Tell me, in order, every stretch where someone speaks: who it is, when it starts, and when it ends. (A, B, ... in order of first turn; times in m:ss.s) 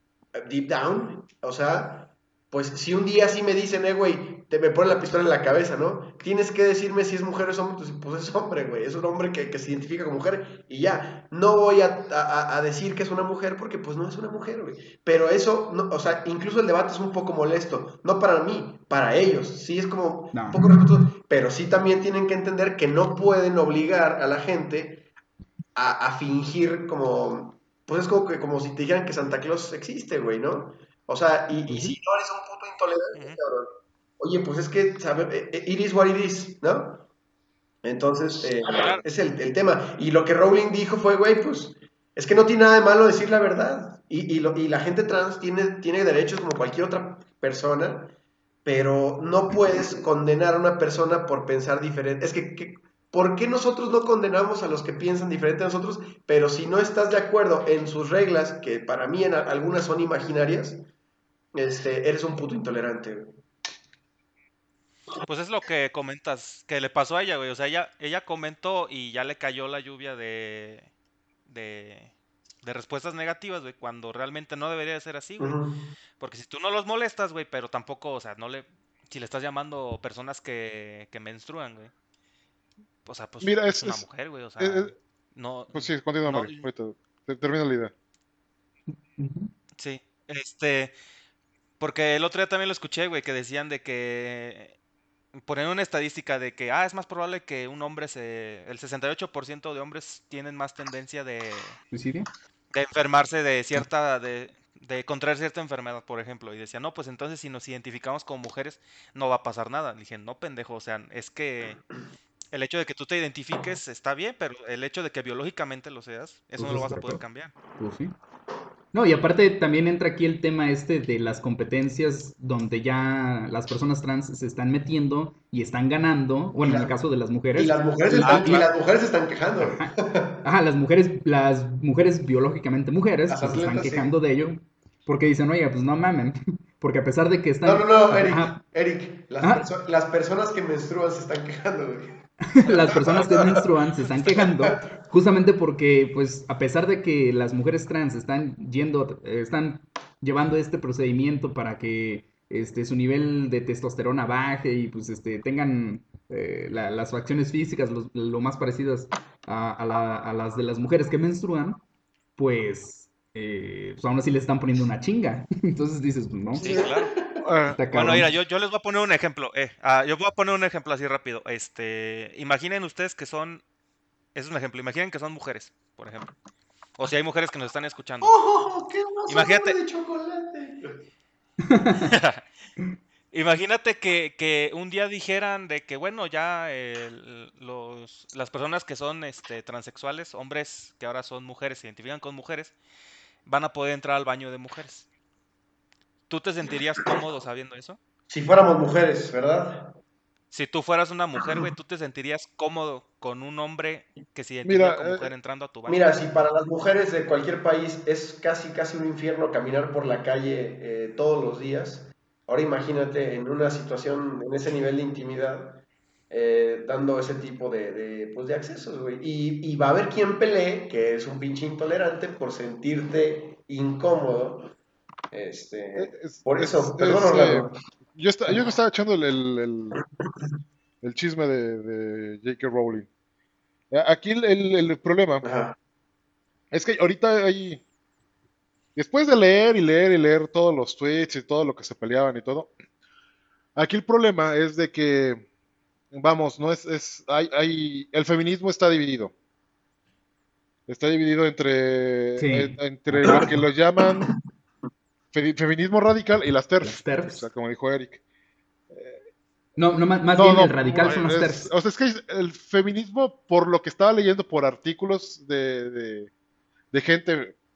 0:00.4-0:25.1 A
0:20.3-0:20.6 B
0:25.8-0:37.0 A
0:31.7-0:32.0 B
0:33.1-0:33.4 C
0:37.8-0:48.1 A
0:38.6-0:39.0 C
0:48.6-1:00.9 A
1:01.6-1:03.4 A
1:05.2-1:10.9 C
1:11.5-1:15.6 C
1:15.4-1:15.9 A
1:16.2-1:21.9 C
1:23.0-1:26.6 C
1:23.4-1:24.1 D
1:24.6-1:24.9 D
1:25.7-1:27.9 D
1:29.2-1:29.5 B
1:29.8-1:31.0 C
1:31.8-1:34.8 C
1:35.4-1:41.8 C
1:41.9-1:42.3 B
1:42.7-1:51.8 C
1:52.5-1:57.5 C
1:56.6-1:57.2 B
1:57.8-1:58.2 B
1:58.9-2:08.6 B
2:06.6-2:07.0 A
2:07.6-2:10.4 A
2:08.1-2:08.7 C
2:09.6-2:18.6 B
2:13.3-2:14.1 A
2:17.6-2:22.1 A
2:19.4-2:19.7 B
2:22.5-2:41.8 B
2:22.6-2:23.6 A
2:42.4-2:46.8 B
2:46.6-2:47.5 A
2:46.6-2:47.1 C
2:47.4-2:48.2 D
2:47.8-2:48.3 B
2:47.9-2:53.6 C
2:54.4-2:56.3 C
2:57.0-2:58.3 C
2:58.2-3:01.0 A
2:59.3-2:59.8 C
3:01.7-3:02.0 B
3:02.0-3:02.4 C
3:03.3-3:12.8 C
3:13.5-3:15.1 C
3:16.3-3:18.0 C
3:18.3-3:20.0 A
3:20.5-3:26.2 C
3:24.6-3:25.3 D
3:25.9-3:44.7 A
3:45.3-3:47.8 A
3:46.0-3:50.0 D
3:51.0-3:53.1 D
3:53.9-3:55.4 D
3:55.4-3:55.8 A
3:56.7-3:57.8 D
3:59.0-4:02.7 D
4:03.8-4:05.5 D
4:06.1-4:09.3 D
4:10.9-4:14.3 D
4:12.4-4:13.5 B
4:14.0-4:14.4 A
4:15.3-4:18.2 D
4:16.8-4:17.5 B
4:18.9-4:19.2 D
4:19.8-4:21.7 B
4:20.4-4:26.3 D
4:26.9-4:27.6 D